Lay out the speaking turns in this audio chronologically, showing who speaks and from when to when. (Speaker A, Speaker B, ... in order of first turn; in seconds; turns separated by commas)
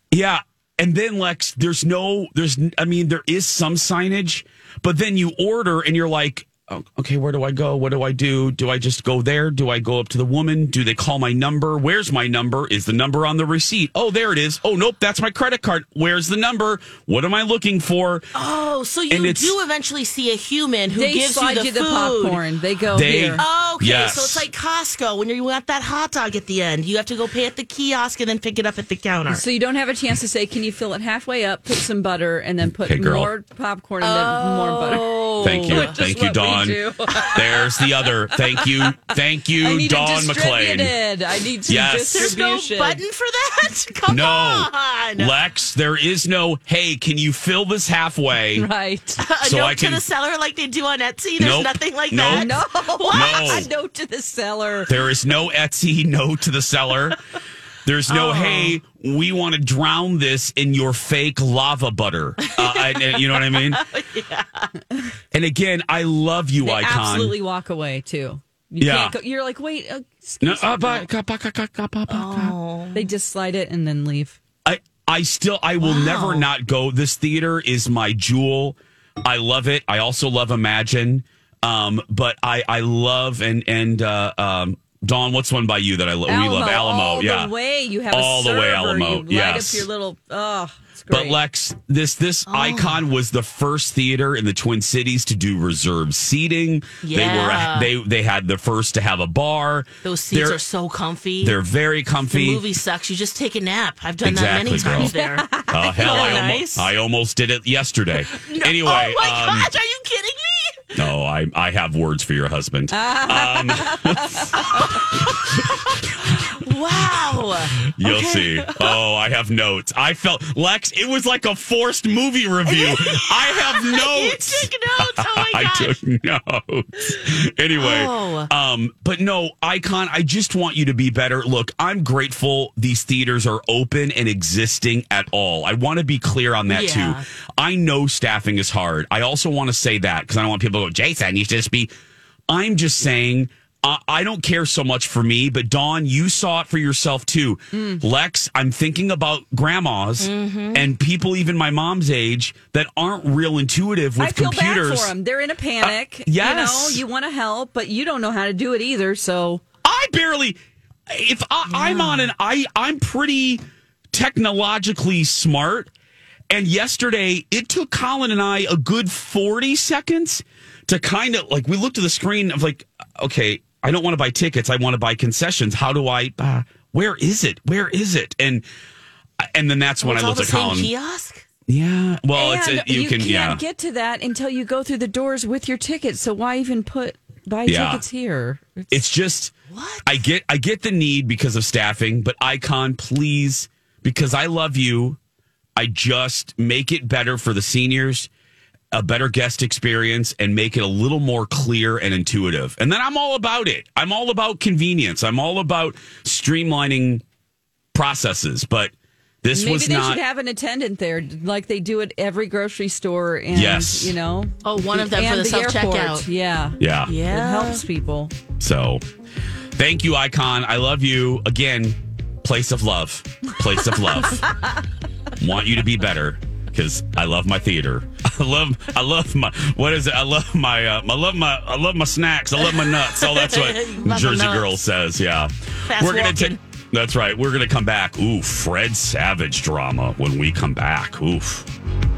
Speaker A: 0.1-18.3, Speaker B: 18.4-22.4, Speaker A: 19.1-19.6, Speaker C: 20.9-23.4, Speaker A: 22.9-24.5, Speaker B: 23.4-29.4, Speaker C: 29.3-37.6, Speaker A: 32.8-33.3, Speaker B: 34.0-36.0, Speaker A: 35.4-41.0, Speaker B: 37.1-37.7, Speaker C: 38.3-38.9, Speaker C: 39.6-43.0, Speaker A: 41.7-42.1, Speaker B: 42.1-45.3, Speaker A: 44.1-48.7, Speaker C: 48.5-49.2, Speaker B: 49.2-53.7, Speaker A: 49.4-50.0, Speaker A: 51.4-52.6, Speaker C: 52.3-54.9, Speaker A: 53.1-53.7, Speaker A: 54.9-57.2, Speaker A: 57.9-63.8, Speaker B: 58.1-58.8, Speaker B: 62.4-64.7, Speaker A: 65.3-67.4, Speaker C: 66.6-71.1, Speaker A: 68.8-69.2, Speaker A: 70.4-72.5, Speaker B: 72.1-73.1, Speaker C: 72.9-74.4, Speaker A: 74.7-87.5, Speaker B: 75.8-76.5, Speaker C: 86.3-91.4, Speaker A: 88.1-89.9, Speaker A: 91.1-100.6, Speaker B: 92.5-93.0, Speaker B: 97.0-97.9, Speaker B: 100.0-101.6, Speaker A: 101.4-102.7, Speaker B: 102.3-106.9, Speaker A: 104.2-105.2, Speaker C: 104.9-106.5, Speaker A: 105.7-109.7, Speaker B: 108.3-110.9, Speaker A: 111.0-114.9, Speaker C: 112.9-114.9, Speaker B: 114.6-119.0, Speaker A: 117.4-141.9, Speaker B: 122.7-126.0, Speaker B: 127.8-128.5, Speaker B: 136.7-137.2, Speaker A: 142.5-155.1, Speaker C: 147.7-148.0, Speaker B: 150.2-150.9, Speaker C: 154.2-159.6, Speaker A: 155.8-157.0, Speaker A: 159.8-160.6, Speaker A: 161.1-165.9, Speaker B: 161.8-162.3, Speaker A: 166.5-178.7, Speaker A: 179.4-180.9, Speaker B: 180.0-181.4, Speaker A: 181.7-183.6, Speaker C: 182.3-188.8, Speaker A: 187.7-188.1, Speaker A: 188.9-189.5, Speaker B: 189.7-190.2, Speaker A: 190.1-195.2, Speaker A: 195.8-198.3, Speaker A: 198.9-207.2, Speaker A: 207.9-210.2, Speaker C: 209.5-218.3, Speaker A: 213.5-214.2, Speaker B: 214.6-216.3, Speaker A: 216.8-217.2, Speaker B: 217.1-217.8, Speaker A: 218.6-219.0, Speaker A: 219.8-224.5, Speaker A: 225.4-241.7, Speaker B: 232.7-234.8, Speaker B: 235.9-236.6